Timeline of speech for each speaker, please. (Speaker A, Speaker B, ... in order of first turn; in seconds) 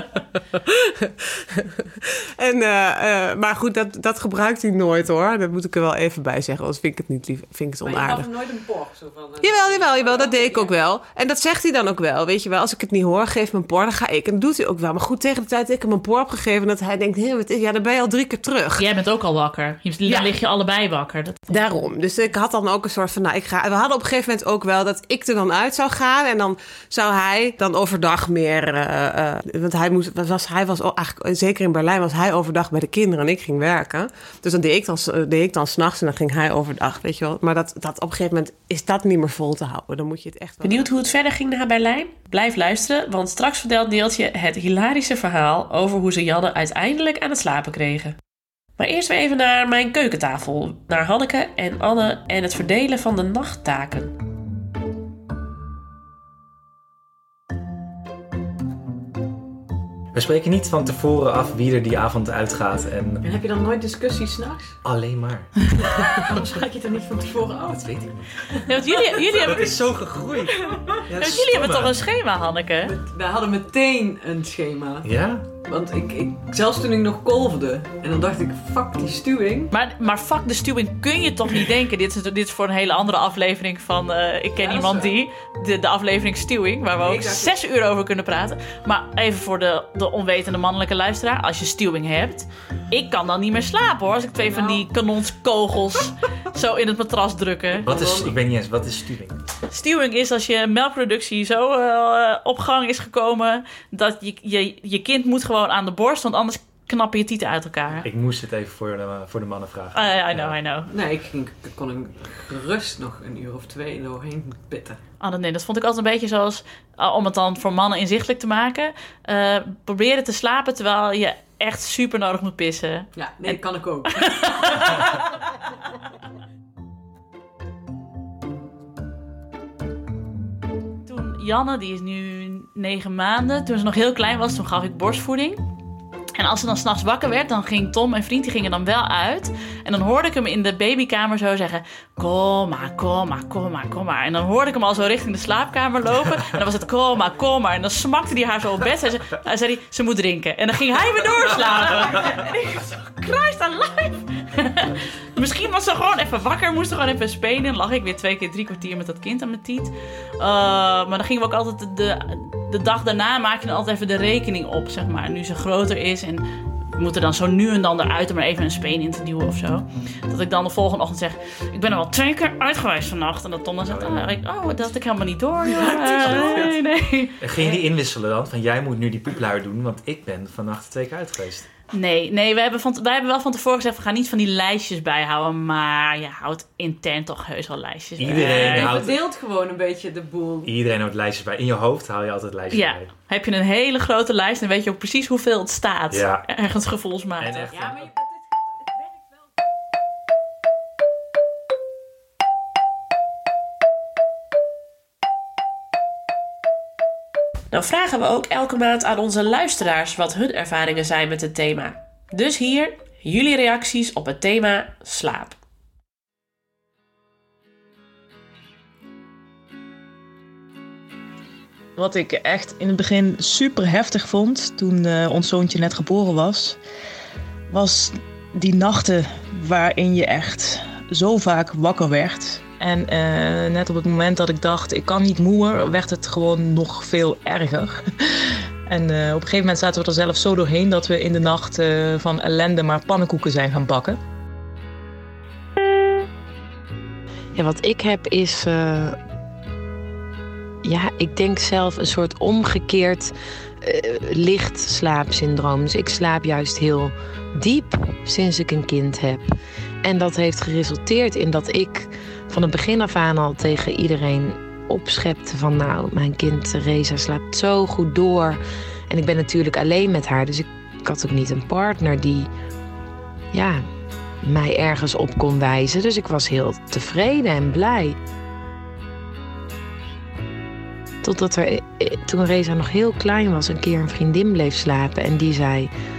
Speaker A: 0.5-8.3, 9.4-18.9, 20.1-20.3, 21.5-40.9
Speaker B: 7.8-10.8, 63.2-64.8, 66.0-68.7, 71.1-71.7, 72.9-75.1, 75.6-79.7, 84.6-85.2, 87.0-87.6, 94.5-94.9, 97.9-98.3, 110.9-115.0, 123.2-124.7, 188.3-190.7, 197.8-198.2
Speaker C: 18.8-21.6, 68.7-69.7, 71.2-72.9, 79.7-97.9, 99.7-108.1, 110.0-110.9, 115.2-123.6, 124.2-125.1, 131.1-135.6, 136.3-166.4, 166.9-177.4, 181.9-189.0, 192.7-197.7
Speaker D: 40.6-48.2, 48.8-54.1, 207.7-215.6
Speaker E: 60.1-63.2, 64.8-65.7, 67.7-68.3, 69.4-70.6, 71.1-71.9, 75.0-75.5, 97.8-99.4, 108.0-110.6, 173.9-174.3, 176.2-176.7, 177.4-181.7, 188.2-189.2, 190.6-193.1, 196.1-196.5, 197.4-198.1
Speaker F: 222.0-226.8, 227.7-238.0, 238.9-244.2
Speaker G: 247.6-249.2, 250.8-272.5, 273.5-273.8, 274.4-278.2, 281.2-285.9